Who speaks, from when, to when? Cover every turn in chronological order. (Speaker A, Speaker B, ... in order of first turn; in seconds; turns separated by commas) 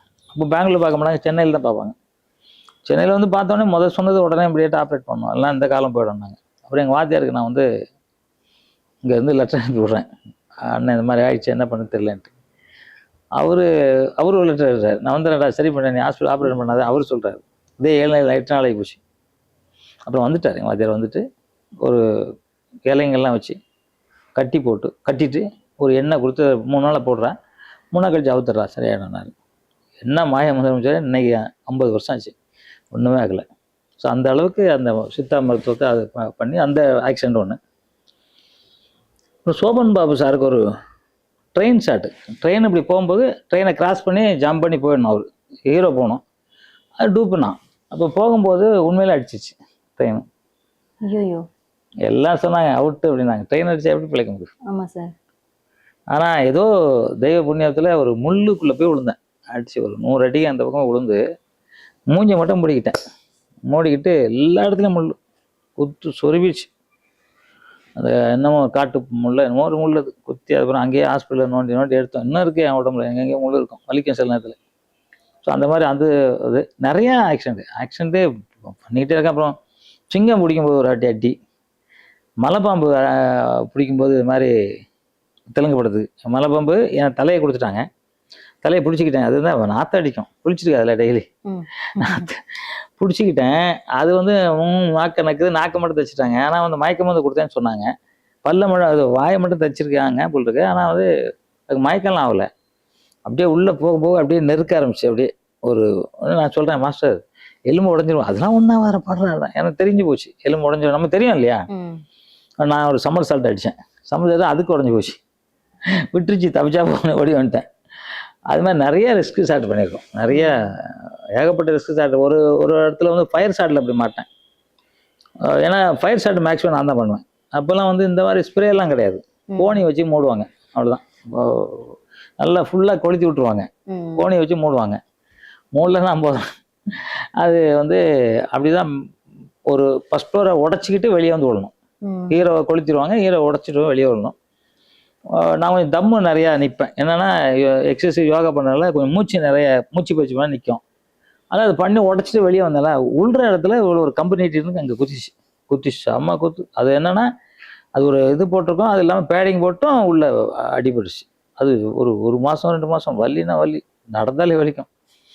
Speaker A: 0.3-1.9, Speaker A: 2.9-7.7, Speaker A: 9.0-10.0, Speaker A: 10.7-12.3, Speaker A: 13.4-13.7, Speaker A: 14.2-19.0, Speaker A: 20.1-21.2, Speaker A: 22.9-23.6, Speaker A: 24.4-27.3, Speaker A: 27.9-29.3, Speaker A: 30.0-32.3, Speaker A: 32.9-33.4, Speaker A: 34.0-37.6, Speaker A: 39.4-40.6, Speaker A: 41.5-46.2, Speaker A: 47.0-50.2, Speaker B: 51.0-51.5, Speaker A: 52.0-54.5, Speaker B: 54.7-55.1, Speaker A: 56.1-56.7, Speaker A: 57.2-61.2, Speaker A: 62.1-63.0, Speaker A: 63.7-65.1, Speaker A: 65.8-66.7, Speaker A: 68.0-74.5, Speaker A: 75.4-79.5, Speaker A: 80.1-81.3, Speaker A: 82.4-84.5, Speaker A: 85.5-87.8, Speaker A: 88.6-91.2, Speaker B: 91.5-92.3, Speaker A: 91.9-97.9, Speaker A: 98.4-101.1, Speaker A: 101.7-102.5, Speaker A: 103.3-111.7, Speaker B: 111.7-112.0, Speaker A: 112.6-115.2, Speaker A: 116.1-117.7, Speaker A: 118.5-124.2, Speaker B: 120.3-120.7, Speaker A: 125.6-135.0, Speaker B: 129.5-129.8, Speaker B: 133.9-134.2, Speaker A: 135.7-138.0, Speaker A: 138.5-138.9, Speaker A: 139.7-141.7, Speaker B: 142.0-142.4, Speaker A: 142.3-144.3, Speaker A: 145.4-150.8, Speaker A: 151.5-157.3, Speaker A: 157.9-164.9